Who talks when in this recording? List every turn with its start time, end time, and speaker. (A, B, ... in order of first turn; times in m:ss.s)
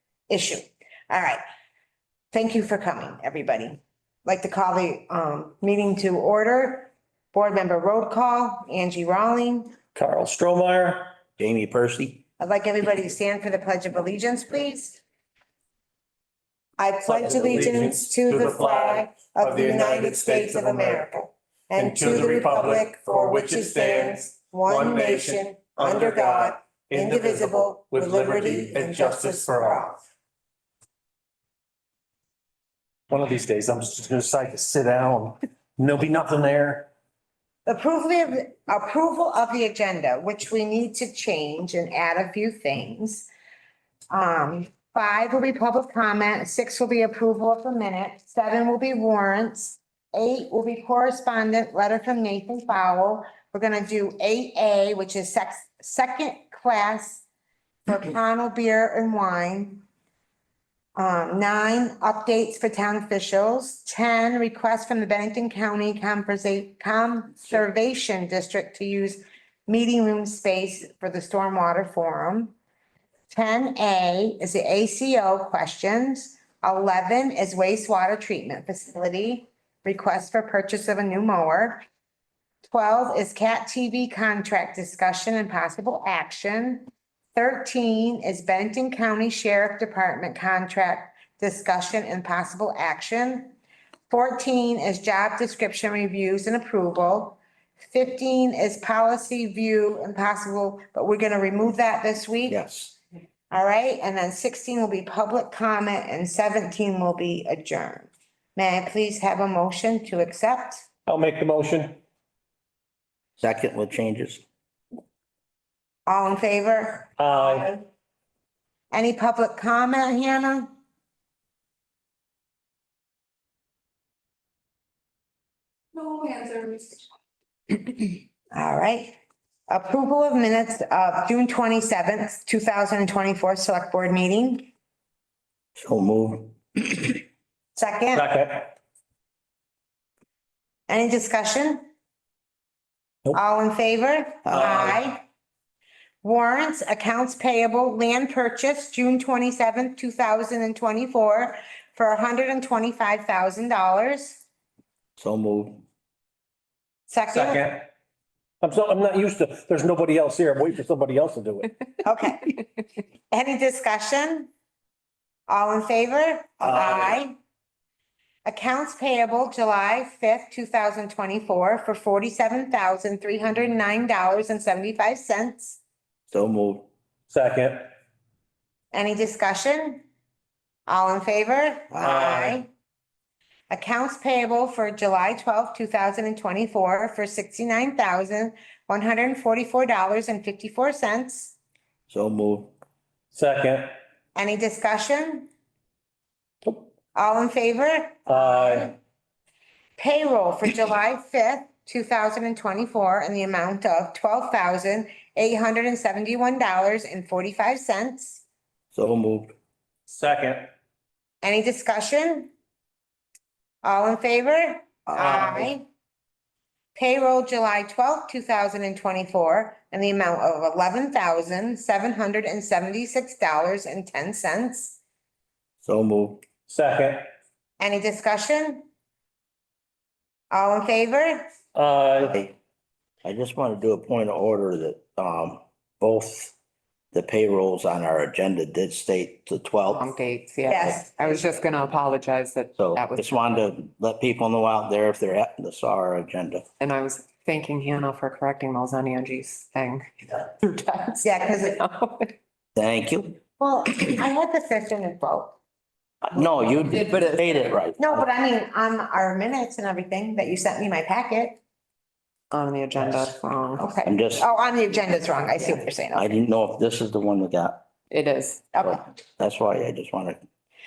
0:00.3-0:01.4 A
0:02.3-0:09.8 A
0:09.9-0:11.1 B
0:11.4-0:12.2 C
0:12.4-0:15.0 A
0:16.8-0:30.0 A
0:17.1-0:21.0 B
0:21.8-0:29.9 B
0:33.1-0:36.9 B
0:37.7-0:43.3 A
0:44.1-0:57.2 A
0:57.9-0:59.8 A
1:01.0-1:12.5 A
1:13.3-1:21.8 A
1:22.6-1:33.6 A
1:34.1-1:42.6 A
1:42.5-1:43.0 C
1:43.5-1:50.8 A
1:51.1-1:52.0 B
1:53.4-1:54.4 C
1:56.1-1:57.8 A
1:57.2-1:57.7 B
1:58.9-2:00.7 A
2:08.5-2:09.2 A
2:09.7-2:14.7 A
2:15.8-2:17.2 C
2:17.8-2:18.3 A
2:18.1-2:18.7 B
2:20.9-2:21.9 A
2:23.3-2:25.2 A
2:24.5-2:24.7 C
2:24.5-2:25.0 B
2:26.2-2:34.4 A
2:35.2-2:35.8 C
2:37.1-2:37.7 A
2:37.3-2:37.9 B
2:38.6-2:41.7 B
2:42.0-2:42.6 A
2:43.3-2:44.5 A
2:45.5-2:47.4 A
2:46.6-2:47.1 B
2:48.4-2:55.8 A
2:56.3-2:56.9 C
2:57.3-2:57.9 B
2:58.9-3:00.0 A
3:00.9-3:02.7 A
3:02.0-3:02.6 B
3:03.7-3:11.6 A
3:12.1-3:12.7 C
3:13.3-3:13.9 B
3:14.4-3:15.5 A
3:17.1-3:19.0 A
3:18.3-3:18.9 B
3:20.0-3:28.4 A
3:28.9-3:29.5 C
3:30.1-3:30.7 B
3:31.4-3:32.5 A
3:33.8-3:35.8 A
3:35.2-3:35.7 B
3:37.0-3:45.0 A
3:45.8-3:46.4 C
3:46.7-3:47.3 B
3:47.8-3:48.9 A
3:50.5-3:51.5 A
3:51.8-3:52.4 B
3:53.2-3:56.6 C
3:57.1-4:00.1 C
3:59.9-4:03.3 D
4:00.7-4:01.6 A
4:02.8-4:06.7 C
4:06.8-4:12.3 D
4:11.2-4:11.8 A
4:12.8-4:13.4 C
4:13.6-4:15.6 A
4:16.3-4:18.3 C
4:16.8-4:17.8 D
4:18.0-4:21.6 A
4:22.5-4:24.0 D
4:23.8-4:26.3 A
4:24.0-4:24.5 C
4:26.1-4:27.8 C
4:28.1-4:28.7 D
4:28.7-4:29.0 A
4:28.8-4:30.4 C